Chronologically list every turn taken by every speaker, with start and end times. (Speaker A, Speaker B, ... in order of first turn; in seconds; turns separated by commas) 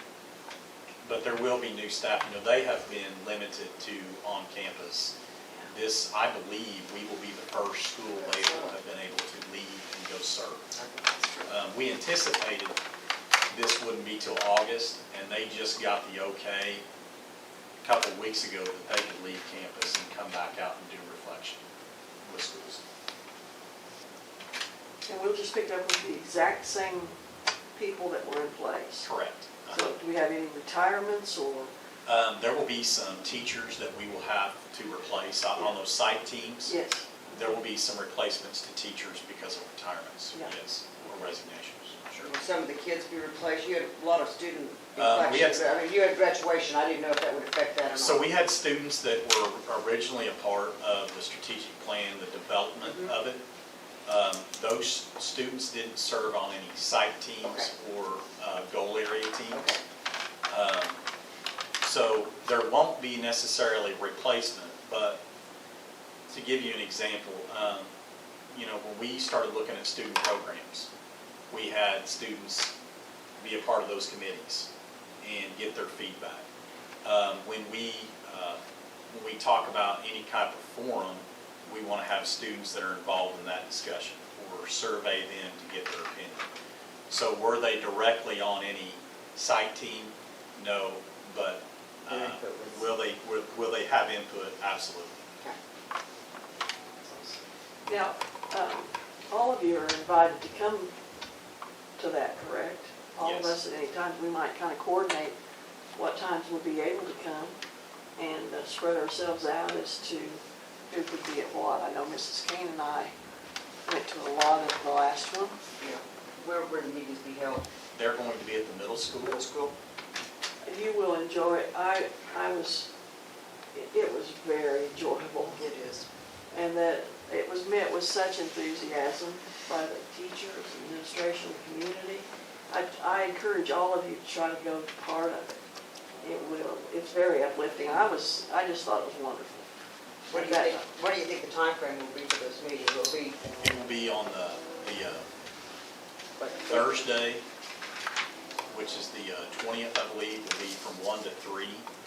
Speaker A: 1.0-5.1, Speaker A: 5.7-10.7, Speaker B: 8.2-8.7, Speaker B: 10.7-11.5, Speaker A: 11.4-12.8, Speaker A: 13.5-16.8, Speaker A: 17.8-21.6, Speaker A: 22.2-22.8, Speaker C: 25.1-27.2, Speaker C: 27.8-29.1, Speaker A: 29.0-29.9, Speaker C: 29.7-31.7, Speaker A: 32.0-36.8, Speaker C: 36.7-37.2, Speaker A: 37.3-42.3, Speaker B: 42.2-48.2, Speaker A: 45.0-45.6, Speaker A: 47.9-53.4, Speaker B: 52.8-53.1, Speaker A: 54.0-59.7, Speaker B: 59.5-59.8, Speaker A: 60.5-61.0, Speaker A: 61.8-65.2, Speaker A: 66.3-67.9, Speaker A: 68.5-70.9, Speaker A: 71.5-72.7, Speaker A: 73.4-74.7, Speaker A: 75.2-76.4, Speaker A: 77.0-78.6, Speaker A: 79.1-86.5, Speaker A: 87.1-95.2, Speaker B: 92.1-92.8, Speaker C: 97.0-100.9, Speaker C: 102.0-105.4, Speaker A: 103.2-103.6, Speaker C: 105.9-107.6, Speaker C: 108.2-113.1, Speaker C: 113.8-115.6, Speaker B: 115.8-117.7, Speaker A: 117.9-119.4, Speaker B: 119.2-119.7, Speaker C: 120.6-122.9, Speaker C: 123.7-125.6, Speaker B: 125.5-126.1, Speaker C: 126.5-135.6, Speaker C: 136.2-139.7, Speaker C: 140.3-140.8, Speaker B: 140.3-143.4, Speaker A: 143.6-145.3, Speaker B: 146.4-147.0, Speaker A: 146.7-147.4, Speaker A: 148.7-151.8